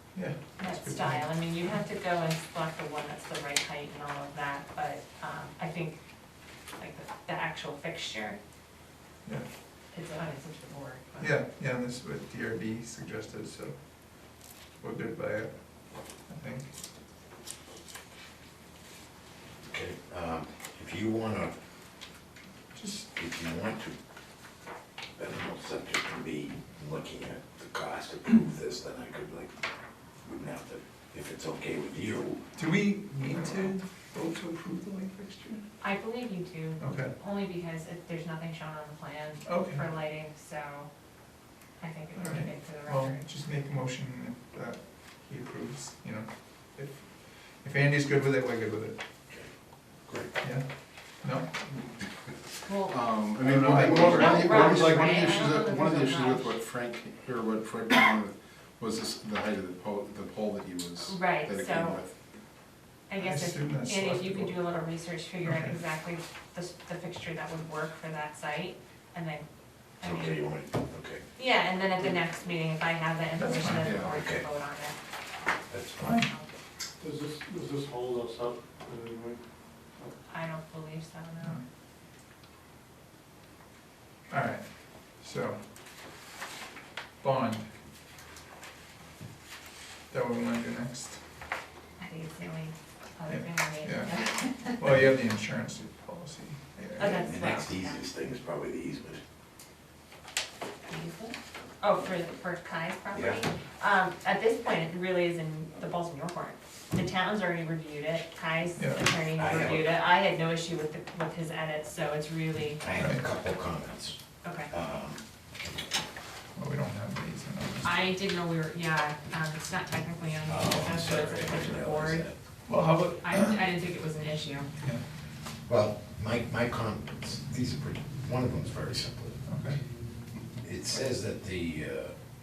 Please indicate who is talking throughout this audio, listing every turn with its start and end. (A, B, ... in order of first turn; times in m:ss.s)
0:00.1-0:01.3 A
0:00.6-0:06.0 B
0:06.8-0:08.4 B
0:09.9-0:11.4 B
0:11.2-0:13.8 A
0:14.8-0:15.6 A
0:16.2-0:16.7 A
0:19.7-0:21.6 C
0:22.7-0:23.1 A
0:23.1-0:24.0 C
0:25.2-0:29.5 C
0:30.2-0:32.4 C
0:32.5-0:35.7 A
0:35.8-0:40.9 B
0:36.8-0:37.2 A
0:39.5-0:39.8 A
0:41.8-0:43.3 B
0:42.2-0:49.0 A
0:50.1-0:50.3 C
0:51.2-0:51.5 A
0:51.7-1:02.1 D
0:52.7-0:53.0 B
0:53.4-0:54.9 A
0:53.9-0:56.5 B
1:01.0-1:02.0 B
1:03.1-1:09.5 B
1:03.2-1:04.6 A
1:05.4-1:05.8 A
1:10.0-1:10.4 B
1:10.0-1:11.2 C
1:11.4-1:15.0 B
1:13.4-1:14.1 A
1:13.8-1:14.1 D
1:14.1-1:14.4 C
1:15.7-1:16.2 C
1:16.0-1:16.3 A
1:17.0-1:19.2 E
1:20.3-1:21.6 B
1:24.3-1:25.6 A
1:27.2-1:27.7 A
1:30.1-1:31.2 A
1:32.0-1:34.8 B
1:33.3-1:34.1 A
1:34.7-1:37.2 A
1:37.0-1:38.0 B
1:37.0-1:39.2 C
1:40.9-1:52.8 B
1:43.1-1:43.4 C
1:48.8-1:49.1 A
1:49.4-1:49.9 C
1:52.8-1:55.2 C
1:52.9-1:53.2 A
1:54.4-1:54.7 B
1:56.6-1:58.1 A
1:57.8-2:02.3 B
2:00.4-2:02.4 C
2:02.7-2:03.6 A
2:03.2-2:04.7 B
2:05.7-2:09.4 C
2:09.4-2:09.8 A
2:10.6-2:12.1 C